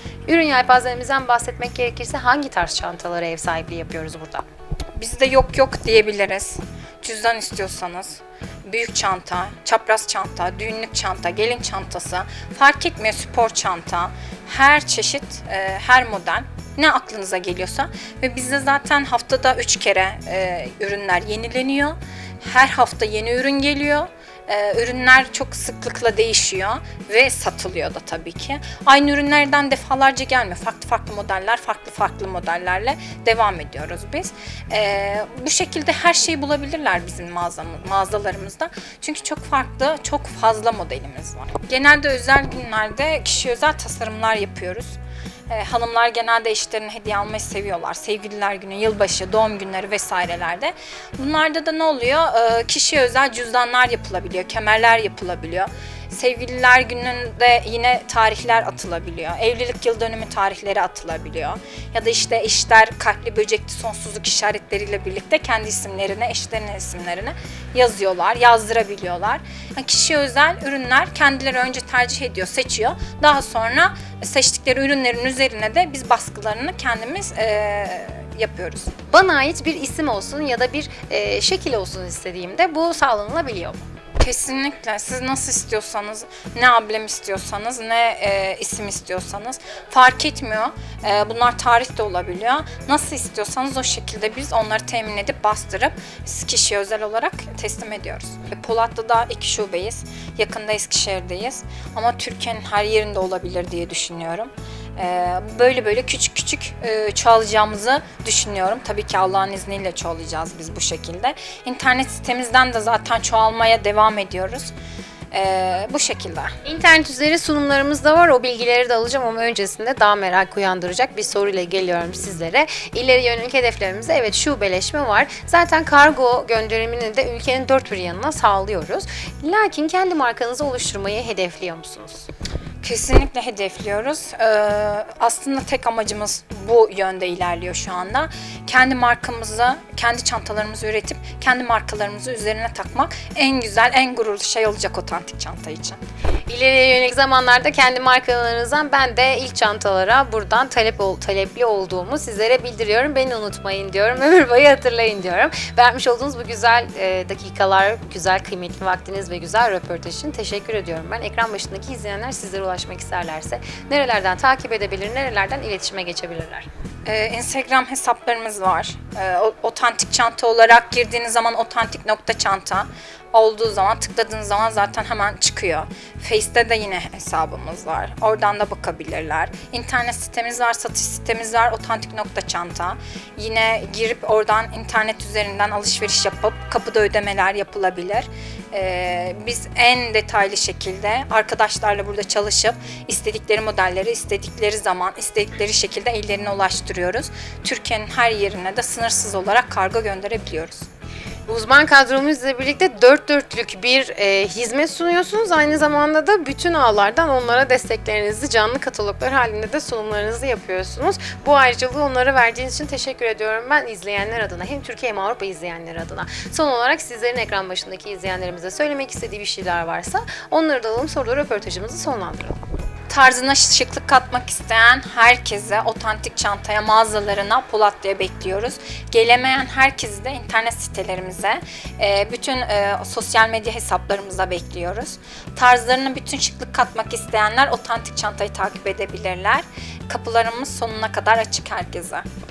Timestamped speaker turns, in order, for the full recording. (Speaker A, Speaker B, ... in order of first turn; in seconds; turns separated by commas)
Speaker A: 0.3-4.5, Speaker B: 5.0-45.0, Speaker B: 45.5-78.9, Speaker A: 79.1-83.8, Speaker B: 84.2-114.7, Speaker B: 115.3-116.5, Speaker A: 116.6-132.3, Speaker B: 132.8-146.0, Speaker A: 146.5-166.7, Speaker B: 167.1-200.9, Speaker A: 201.5-222.6, Speaker B: 223.1-242.2